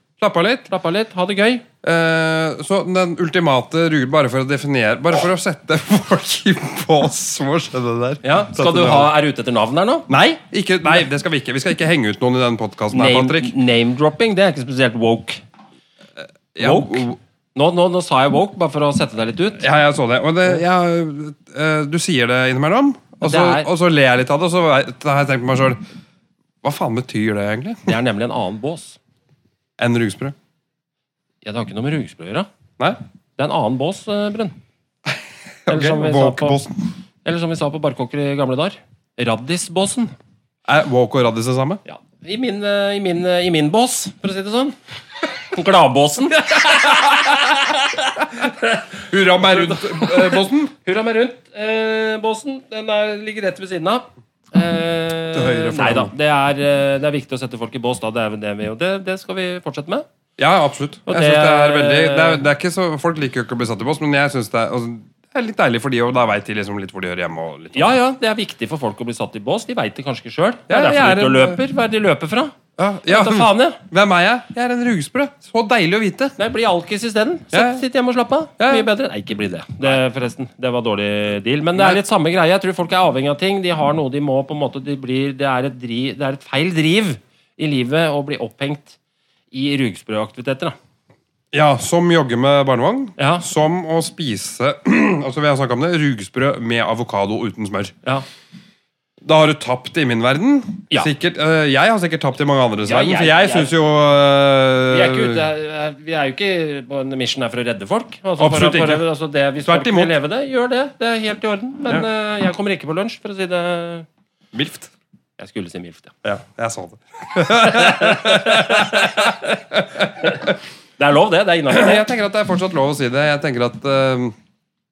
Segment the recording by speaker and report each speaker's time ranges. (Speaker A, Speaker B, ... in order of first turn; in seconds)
Speaker A: 0.2-0.7, 1.8-9.1, 10.1-13.5, 16.5-17.2, 19.6-25.8, 26.6-27.9, 29.8-30.3, 35.1-36.9, 40.7-41.8, 46.7-47.3, 49.0-50.7, 55.3-56.1, 60.4-67.9, 70.7-71.6, 72.8-76.3, 77.5-77.8, 78.6-78.9, 91.5-97.9, 99.2-105.5, 108.4-109.0, 109.6-110.1, 114.5-114.9, 116.2-120.5, 121.7-124.3
Speaker B: 0.7-1.6, 8.2-10.1, 12.9-15.4, 16.6-19.6, 23.2-23.7, 27.9-29.0, 31.4-32.5, 33.4-34.5, 35.7-36.6, 37.2-40.1, 41.8-44.8, 45.4-60.0, 61.1-62.4, 67.7-73.8, 76.4-89.0, 89.5-90.7, 93.2-93.5, 102.8-103.7, 104.9-114.1, 115.4-116.1, 117.5-122.1